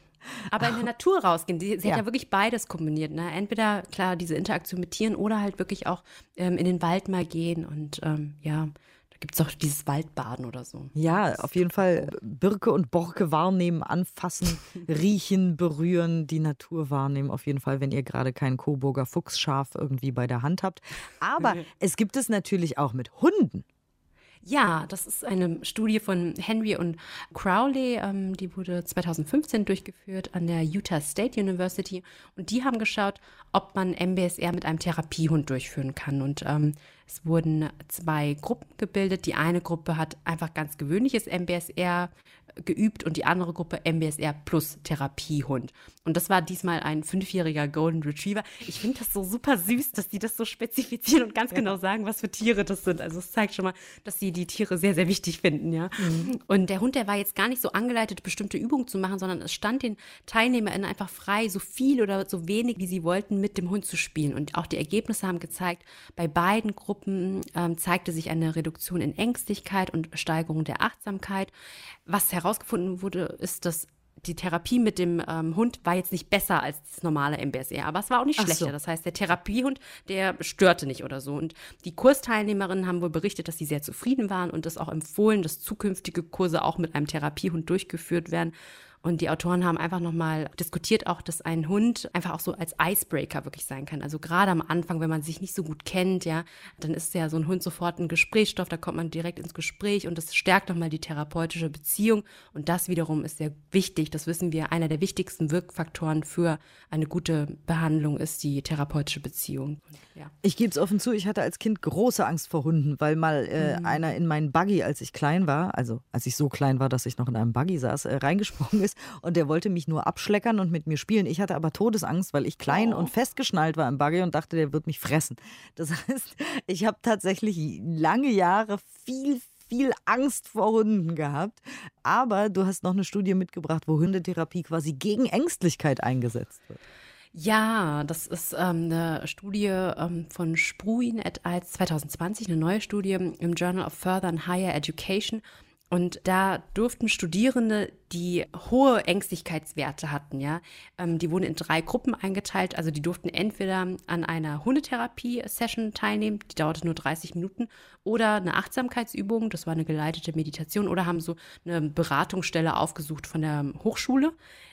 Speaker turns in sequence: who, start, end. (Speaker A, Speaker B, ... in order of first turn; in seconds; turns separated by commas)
Speaker A: 0.4-0.8, Speaker B: 0.5-12.1, Speaker A: 10.9-23.6, Speaker B: 24.4-42.1, Speaker B: 42.6-71.5, Speaker A: 56.0-56.3, Speaker B: 72.1-110.3, Speaker A: 78.4-78.7, Speaker A: 110.4-136.8, Speaker B: 113.6-114.0, Speaker B: 122.7-123.1, Speaker B: 137.3-164.3